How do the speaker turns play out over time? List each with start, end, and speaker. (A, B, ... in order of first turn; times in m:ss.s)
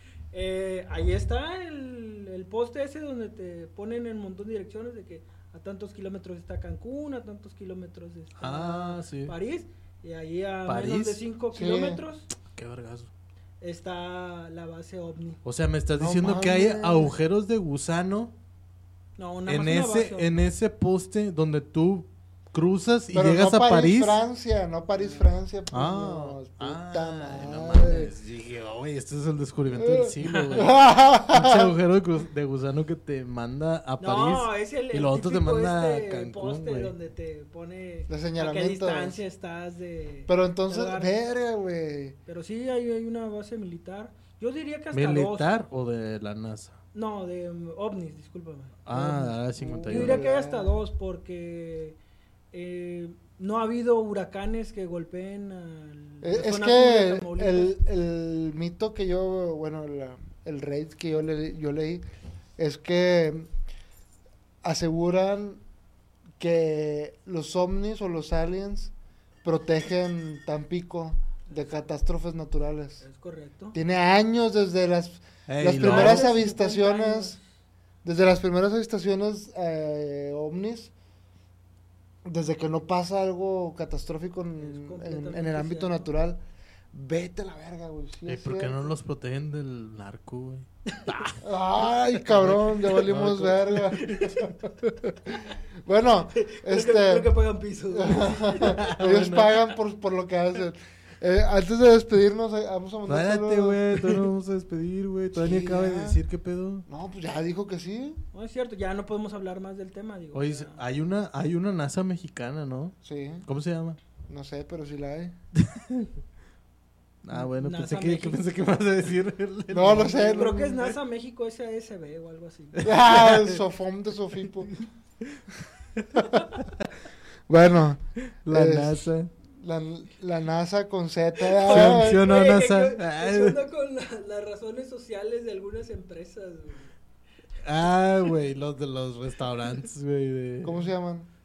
0:00.3-0:12.3 A
0:08.4-0:09.3 B
0:10.6-0:11.2 B
0:11.5-0:12.0 C
0:12.5-0:13.1 B
0:13.6-0:15.4 A
0:15.4-0:18.3 B
0:16.0-0:17.1 C
0:19.2-0:20.4 A
0:19.4-0:24.2 B
0:23.1-0:28.1 C
0:25.0-0:25.2 A
0:25.7-0:36.9 B
0:29.8-0:31.7 C
0:30.2-0:30.6 A
0:34.0-0:41.1 A
0:38.1-0:39.2 C
0:40.3-0:42.2 C
0:42.3-0:45.5 A
0:44.9-0:46.8 B
0:46.9-0:52.0 A
0:48.8-0:50.3 B
0:49.7-0:50.8 C
0:52.5-0:57.7 A
0:56.2-1:02.0 C
1:02.6-1:03.5 C
1:04.6-1:05.6 C
1:06.4-1:08.9 C
1:09.4-1:13.0 C
1:13.0-1:13.8 A
1:13.7-1:17.4 C
1:15.5-1:16.3 B
1:15.7-1:17.4 A
1:18.0-1:20.9 C
1:22.2-1:26.4 C
1:24.6-1:26.1 A
1:26.9-1:28.9 C
1:28.3-1:31.4 B
1:30.9-1:31.3 A
1:31.4-1:37.3 C
1:32.2-1:34.5 B
1:34.0-1:34.3 A
1:36.4-1:38.9 A
1:37.9-1:44.2 C
1:38.6-1:39.5 B
1:43.0-1:46.8 B
1:45.3-1:46.2 C
1:46.9-1:48.2 C
1:48.3-1:50.8 A
1:50.3-1:54.0 B
1:53.0-1:53.4 C
1:54.3-1:55.3 C
1:55.6-1:56.1 B
1:57.2-2:00.8 B
1:57.4-1:58.4 A
1:59.7-2:00.9 C
2:00.1-2:02.8 A
2:02.8-2:03.6 B
2:02.8-2:04.7 C
2:05.9-2:06.9 B
2:07.5-2:12.3 C
2:08.3-2:09.3 B
2:11.6-2:16.9 A
2:11.6-2:13.6 B
2:17.6-2:20.8 B
2:20.6-2:21.3 C